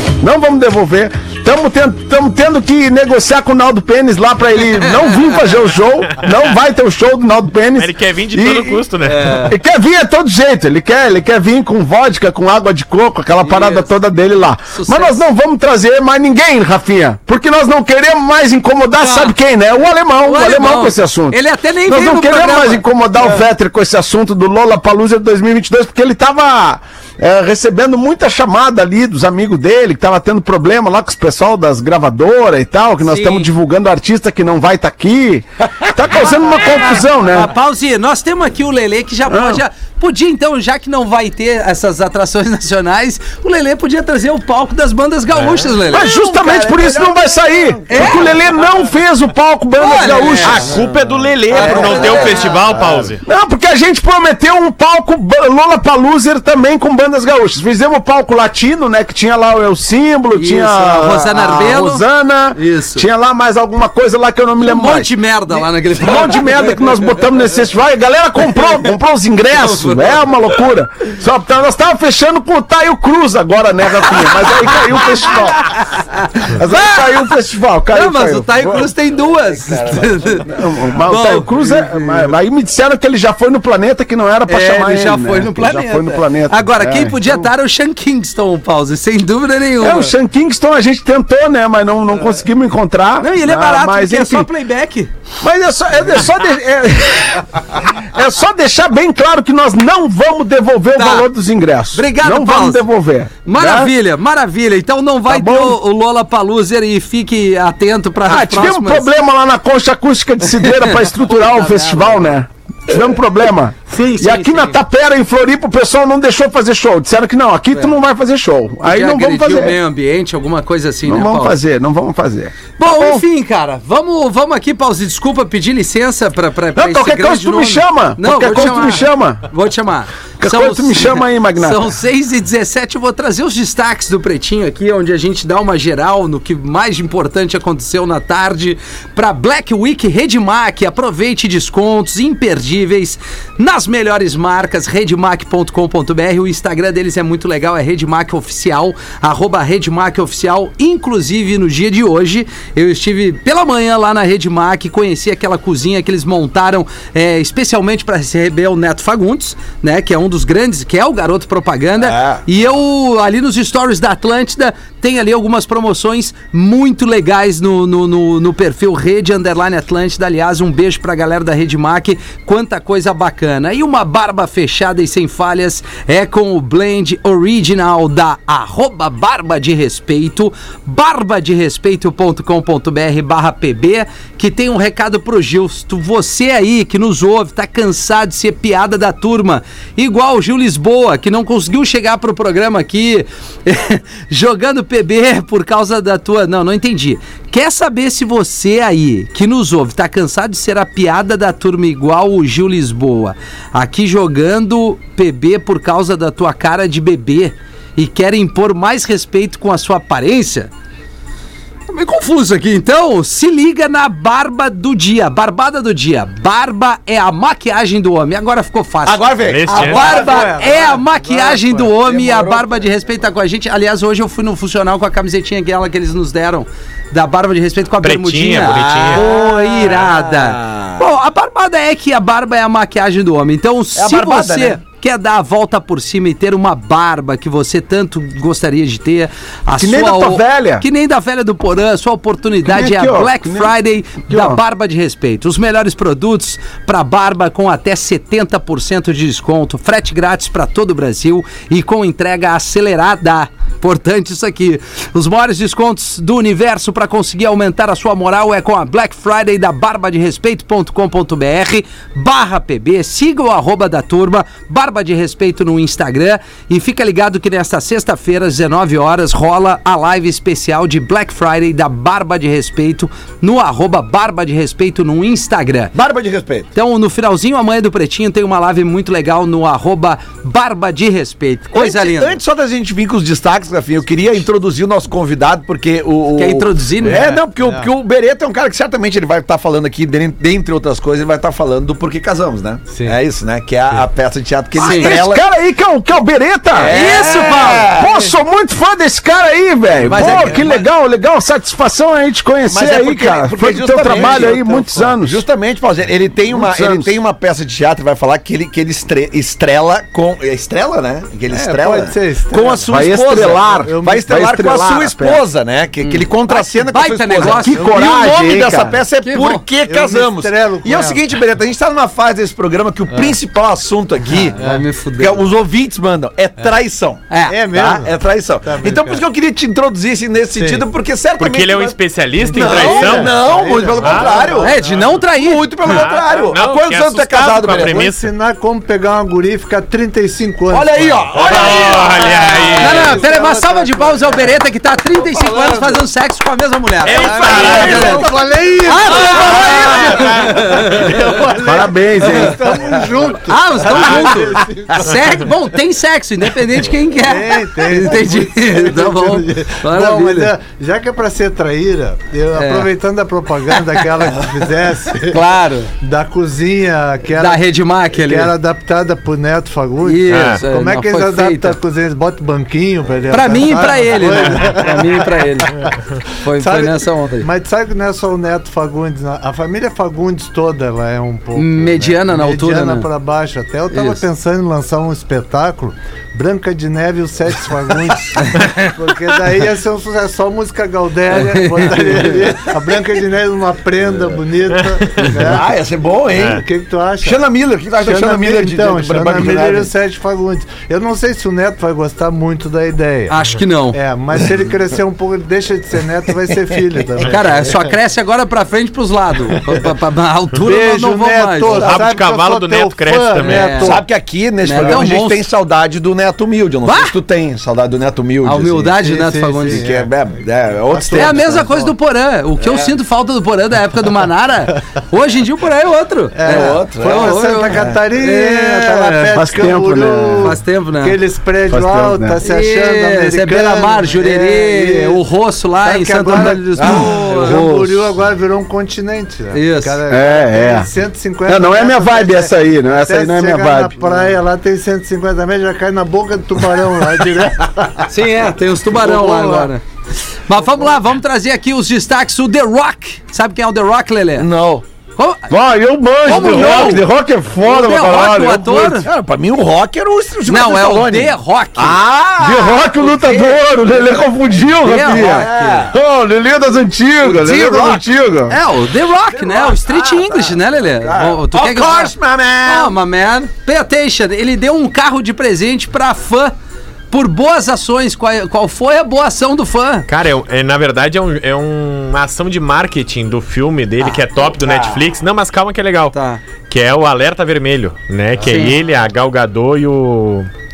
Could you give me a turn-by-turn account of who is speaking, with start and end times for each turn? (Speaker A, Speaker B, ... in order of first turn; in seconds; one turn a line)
Speaker A: 0.2-37.5
Speaker B: 4.8-5.2
Speaker C: 6.0-6.6
Speaker C: 7.8-9.3
Speaker B: 9.1-9.6
Speaker B: 13.4-13.9
Speaker B: 14.7-15.2
Speaker B: 19.0-19.3
Speaker B: 20.2-23.4
Speaker B: 33.0-33.5
Speaker B: 36.2-46.7
Speaker A: 39.3-39.6
Speaker A: 45.9-50.8
Speaker D: 46.1-48.7
Speaker B: 47.9-48.3
Speaker B: 49.8-50.8
Speaker C: 50.4-53.2
Speaker B: 51.5-52.7
Speaker E: 51.5-53.1
Speaker A: 53.2-75.9
Speaker B: 60.3-62.0
Speaker B: 62.5-63.0
Speaker B: 64.6-67.4
Speaker B: 68.4-68.9
Speaker B: 69.5-70.3
Speaker B: 75.0-75.4
Speaker B: 75.9-77.0
Speaker A: 76.5-78.9
Speaker B: 77.9-80.5
Speaker D: 79.3-80.6
Speaker A: 80.5-87.4
Speaker B: 81.0-82.3
Speaker B: 84.5-90.1
Speaker A: 89.8-94.5
Speaker B: 93.2-95.1
Speaker A: 95.4-103.9
Speaker B: 100.9-101.3
Speaker B: 101.9-102.8
Speaker B: 103.4-109.1
Speaker A: 105.3-105.8
Speaker A: 108.2-119.8
Speaker B: 110.4-112.3
Speaker B: 113.8-114.8
Speaker B: 117.7-118.0
Speaker B: 118.8-121.6
Speaker A: 121.0-123.2
Speaker B: 122.8-210.7
Speaker A: 126.7-129.5
Speaker A: 130.4-131.9
Speaker D: 162.0-162.4
Speaker B: 211.9-275.9
Speaker D: 219.1-220.9
Speaker C: 219.4-220.0
Speaker E: 219.8-221.9
Speaker D: 222.0-222.7
Speaker C: 228.0-229.2
Speaker D: 228.6-231.0
Speaker D: 233.9-234.8
Speaker A: 239.8-240.8
Speaker A: 242.6-243.7
Speaker A: 244.3-244.6
Speaker D: 275.9-276.7
Speaker B: 276.7-282.4
Speaker D: 281.7-295.4
Speaker B: 286.4-287.2
Speaker E: 287.0-287.9
Speaker E: 292.9-293.2
Speaker A: 294.8-296.9
Speaker B: 294.8-295.1
Speaker D: 296.7-298.1
Speaker B: 296.9-297.9
Speaker A: 297.9-305.4
Speaker E: 298.0-298.3
Speaker B: 300.0-300.9
Speaker E: 300.1-300.6
Speaker D: 302.7-304.6
Speaker E: 303.9-305.1
Speaker D: 305.2-324.6
Speaker A: 306.5-307.1
Speaker E: 311.5-314.4
Speaker A: 312.9-315.4
Speaker B: 316.0-318.2
Speaker A: 317.4-319.0
Speaker B: 319.2-319.6
Speaker E: 319.8-321.3
Speaker E: 323.1-323.4
Speaker B: 324.3-325.4
Speaker D: 325.2-338.1
Speaker B: 327.3-327.6
Speaker E: 327.4-329.2
Speaker E: 330.5-330.8
Speaker C: 331.4-333.3
Speaker E: 332.4-335.2
Speaker C: 334.0-334.3
Speaker B: 334.6-336.0
Speaker C: 335.9-338.3
Speaker E: 337.6-344.6
Speaker D: 340.7-343.0
Speaker C: 341.4-343.2
Speaker B: 342.8-348.2
Speaker E: 345.1-346.0
Speaker E: 347.0-355.5
Speaker C: 347.1-348.2
Speaker D: 347.2-348.3
Speaker B: 348.9-351.2
Speaker A: 351.6-352.8
Speaker B: 353.5-360.5
Speaker E: 357.1-365.4
Speaker B: 362.6-362.9
Speaker B: 365.3-365.9
Speaker E: 366.0-376.0
Speaker B: 367.4-368.5
Speaker B: 370.0-371.8
Speaker C: 370.3-370.6
Speaker B: 373.3-375.8
Speaker B: 376.4-377.5
Speaker E: 376.5-395.8
Speaker B: 381.5-383.1
Speaker B: 383.9-384.2
Speaker B: 388.5-388.9
Speaker B: 391.3-392.4
Speaker C: 394.7-395.3
Speaker D: 395.4-396.6
Speaker E: 396.3-403.4
Speaker D: 397.2-399.9
Speaker B: 403.3-404.0
Speaker E: 403.9-407.9
Speaker B: 407.2-411.9
Speaker E: 410.6-414.1
Speaker D: 411.7-412.0
Speaker C: 411.8-413.7
Speaker B: 413.4-414.0
Speaker D: 413.7-419.0
Speaker B: 414.6-415.4
Speaker E: 414.7-415.1
Speaker B: 416.8-417.1
Speaker B: 418.4-419.9
Speaker E: 419.0-421.9
Speaker D: 419.6-421.6
Speaker B: 421.1-429.3
Speaker D: 422.6-422.9
Speaker E: 426.4-435.2
Speaker D: 426.5-428.0
Speaker A: 429.3-430.6
Speaker B: 430.4-431.2
Speaker A: 431.7-432.4
Speaker B: 432.4-437.6
Speaker E: 435.8-448.1
Speaker D: 436.8-437.8
Speaker B: 439.5-440.0
Speaker A: 440.1-440.9
Speaker A: 441.5-444.1
Speaker B: 448.1-449.8
Speaker E: 448.9-449.7
Speaker B: 450.5-454.5
Speaker E: 450.6-450.9
Speaker D: 454.4-454.8
Speaker B: 455.2-455.5
Speaker A: 455.5-458.8
Speaker B: 456.2-457.1
Speaker D: 456.3-457.0
Speaker B: 457.6-459.1
Speaker D: 458.6-464.4
Speaker B: 460.5-462.0
Speaker A: 462.4-468.5
Speaker B: 464.8-465.9
Speaker D: 465.0-465.9
Speaker D: 467.2-468.0
Speaker B: 468.5-476.5
Speaker D: 469.3-472.9
Speaker B: 477.1-480.1
Speaker C: 480.1-490.5
Speaker B: 486.1-486.4
Speaker B: 488.4-488.8